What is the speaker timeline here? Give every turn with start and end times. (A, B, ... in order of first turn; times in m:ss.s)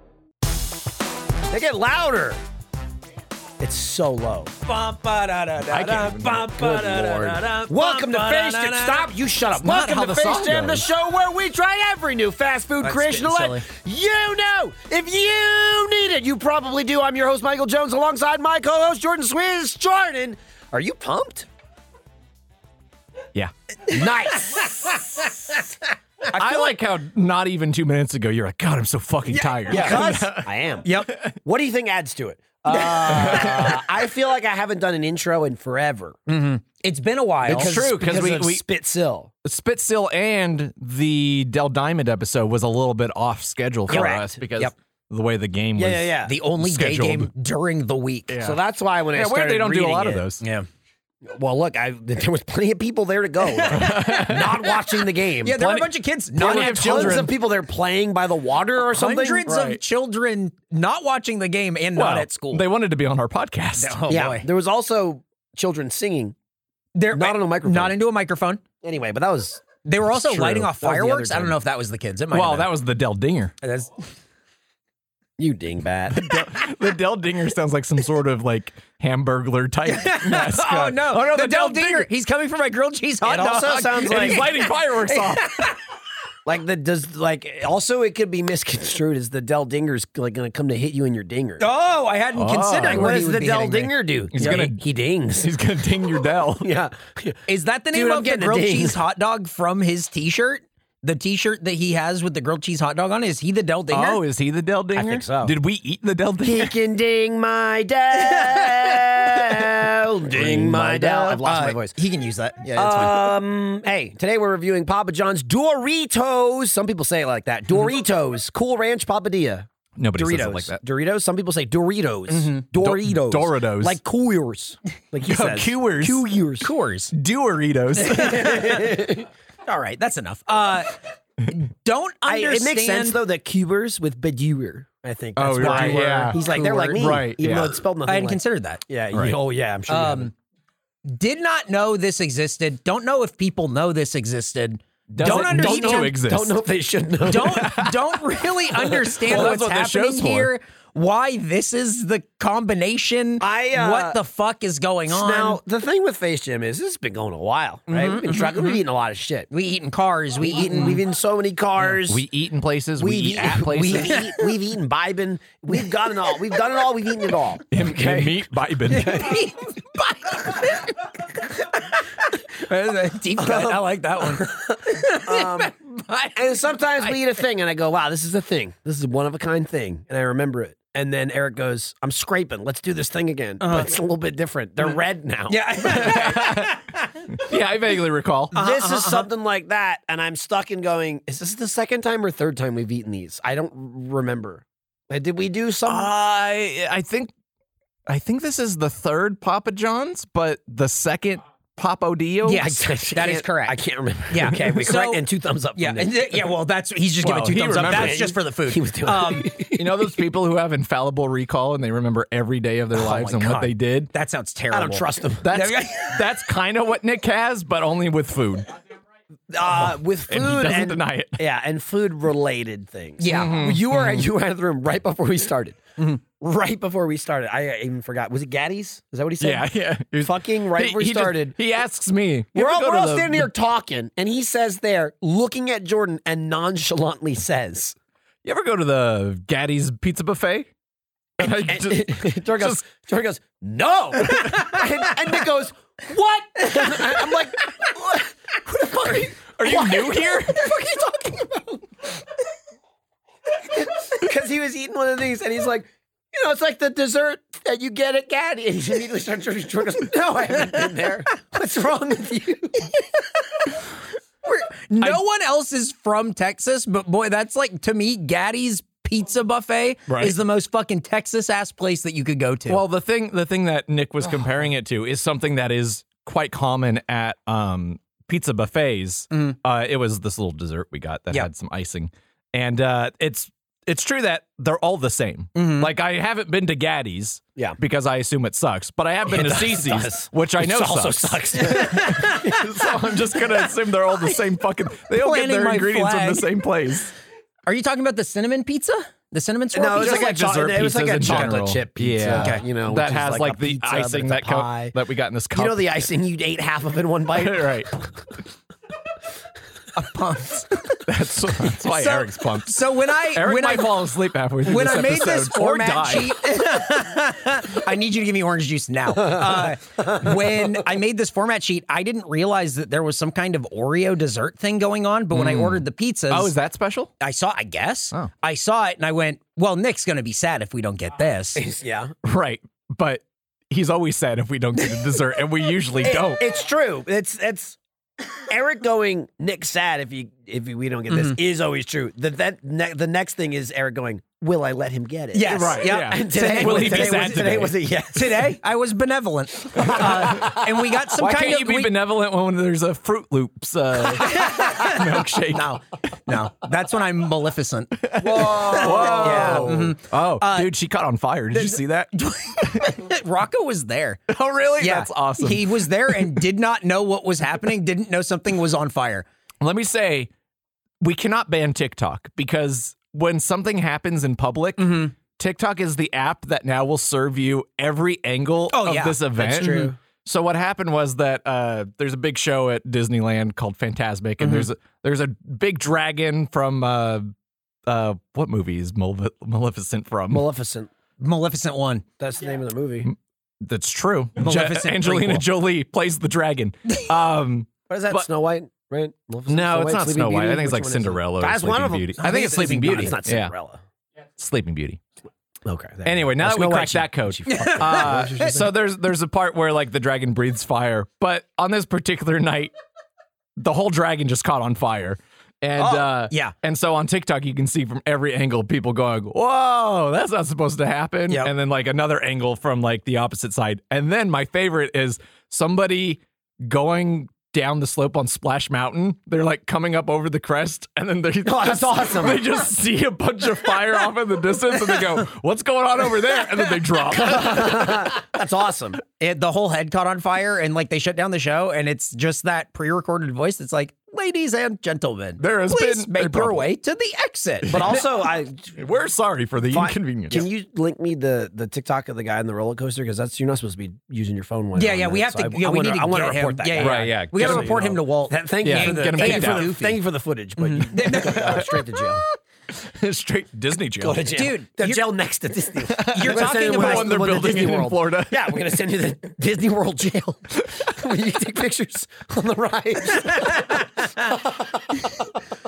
0:01.5-0:02.4 A
0:03.6-0:04.5 A
0:04.6-0:09.1 B
0:05.6-0:07.4 C
0:07.6-0:21.5 A
0:09.6-0:10.8 C
0:12.8-0:13.6 B
0:23.9-0:25.4 A
0:26.3-0:31.3 C
0:26.3-0:26.7 B
0:29.3-0:30.0 B
0:29.7-0:36.2 A
0:30.8-0:31.2 B
0:32.7-0:33.6 B
0:33.1-0:33.8 C
0:36.3-0:37.8 B
0:37.4-0:39.3 A
0:37.5-0:38.6 C
0:39.4-0:47.3 C
0:43.9-0:44.4 A
0:43.9-0:44.7 B
0:45.8-0:46.4 A
0:46.2-0:48.3 B
0:48.3-0:48.6 C
0:48.4-0:50.2 A
0:49.1-0:50.4 C
0:50.4-0:50.7 B
0:51.2-0:59.5 A
0:53.4-0:57.2 B
0:53.7-0:54.6 C
0:56.3-0:57.3 C
0:58.9-1:02.7 B
0:59.4-0:59.8 C
1:02.0-1:04.0 C
1:03.8-1:04.4 B
1:04.1-1:06.3 A
1:06.9-1:08.6 B
1:07.1-1:08.0 A
1:08.8-1:09.6 A
1:09.8-1:12.7 B
1:10.3-1:10.6 C
1:10.4-1:11.6 A
1:12.3-1:13.5 C
1:13.6-1:14.0 B
1:15.4-1:16.4 A
1:16.1-1:22.1 C
1:19.8-1:25.7 B
1:23.2-1:24.5 A
1:24.0-1:25.6 C
1:26.4-1:31.6 A
1:31.6-1:34.6 B
1:32.3-1:33.1 C
1:32.8-1:35.5 A
1:34.3-1:34.8 C
1:35.4-1:36.7 C
1:36.6-1:37.4 A
1:37.5-1:44.2 B
1:37.9-1:39.0 A
1:43.9-1:46.7 C
1:44.9-1:45.6 A
1:46.4-1:51.9 A
1:48.2-1:49.2 B
1:50.4-1:50.8 C
1:50.4-1:53.4 B
1:52.7-2:06.7 A
2:00.0-2:00.8 C
2:02.3-2:02.6 B
2:02.8-2:04.0 C
2:05.2-2:06.3 C
2:06.6-2:07.1 B
2:07.1-2:08.6 C
2:08.0-2:09.1 B
2:08.2-2:09.3 A
2:09.6-2:13.2 B
2:12.2-2:20.3 A
2:15.4-2:16.4 C
2:15.6-2:17.2 B
2:17.0-2:17.8 C
2:18.0-2:19.3 B
2:19.9-2:20.3 B
2:21.0-2:26.1 B
2:25.1-2:26.6 C
2:25.2-2:27.7 A
2:27.2-2:35.6 B
2:27.4-2:28.2 C
2:29.2-2:30.5 C
2:33.4-2:34.2 A
2:35.1-2:39.5 A
2:37.9-2:38.8 B
2:39.5-2:41.0 B
2:40.4-2:42.2 A
2:41.9-2:44.2 C
2:43.0-2:49.4 A
2:47.7-2:49.4 C
2:48.9-2:56.4 B
2:53.4-2:55.7 A
2:56.3-3:06.4 A
3:03.6-3:03.9 B
3:05.5-3:07.2 B
3:05.9-3:08.5 C
3:08.5-3:09.3 B
3:08.5-3:16.1 A
3:15.8-3:17.3 C
3:18.1-3:22.7 C
3:22.4-3:23.8 B
3:22.5-3:26.5 A
3:24.3-3:25.2 B
3:25.7-3:29.5 B
3:27.2-3:28.3 C
3:27.8-3:30.1 A
3:29.6-3:34.1 C
3:32.9-3:36.2 B
3:34.7-3:35.5 A
3:35.4-3:38.7 C
3:39.5-3:51.6 A
3:40.3-3:41.4 C
3:43.2-3:43.6 B
3:43.3-3:44.2 C
3:49.4-3:53.5 C
3:52.5-3:58.0 A
3:58.4-4:00.7 C
4:01.4-4:02.8 C
4:01.4-4:11.9 A
4:04.4-4:04.7 B
4:08.9-4:10.7 C
4:13.6-4:23.0 A
4:24.4-4:32.8 B
4:30.1-4:30.3 C
4:32.7-4:57.1 C
4:45.5-4:45.9 B
4:49.3-4:52.6 A
4:51.6-4:52.5 B
4:55.1-4:56.5 B
4:57.6-5:00.4 B
4:59.7-5:04.9 A
5:00.0-5:05.8 C
5:02.3-5:02.6 B
5:05.5-5:08.3 A
5:07.3-5:07.9 C
5:09.9-5:11.0 B
5:11.0-5:16.4 C
5:11.7-5:14.0 B
5:14.6-5:26.5 B
5:25.3-5:27.1 C
5:27.2-5:31.6 B
5:31.6-5:32.1 A
5:32.2-5:36.4 C
5:34.8-5:35.1 B
5:36.0-5:37.8 A
5:38.3-5:48.6 A
5:45.3-5:51.9 B
5:45.4-5:47.7 C
5:49.7-5:50.8 A
5:51.2-5:55.8 C
5:54.1-6:00.7 B
5:58.0-6:03.0 C
5:58.2-5:59.8 A
6:01.5-6:04.2 B
6:04.3-6:06.4 C
6:04.8-6:09.2 B
6:09.6-6:10.3 C
6:11.0-6:27.3 C
6:14.8-6:15.1 B
6:18.7-6:19.9 B
6:19.4-6:20.0 A
6:24.4-6:24.7 B
6:27.9-6:30.4 C
6:30.3-6:30.9 A
6:31.2-6:32.0 B
6:32.2-6:33.1 A
6:33.0-6:38.3 C
6:34.4-6:35.4 B
6:37.9-6:43.8 A
6:39.5-6:43.5 C
6:42.2-6:43.1 B
6:44.4-6:45.0 C
6:45.6-6:48.6 A
6:46.0-6:52.7 C
6:47.5-6:48.6 B
6:53.6-7:18.1 C
6:55.8-6:56.5 B
7:11.4-7:12.4 A
7:17.1-7:19.0 A
7:19.2-7:28.0 B
7:25.4-7:26.7 C
7:27.7-7:28.0 C
7:27.7-7:28.7 A
7:28.8-7:30.4 C
7:29.7-7:42.2 A
7:34.7-7:40.0 B
7:36.8-7:38.0 C
7:38.6-7:39.7 C
7:40.6-7:41.6 B
7:41.0-7:41.7 C
7:42.7-7:44.2 C
7:44.0-7:55.1 A
7:44.3-7:45.0 B
7:45.9-7:48.4 C
7:46.0-7:47.2 B
7:53.3-7:54.2 B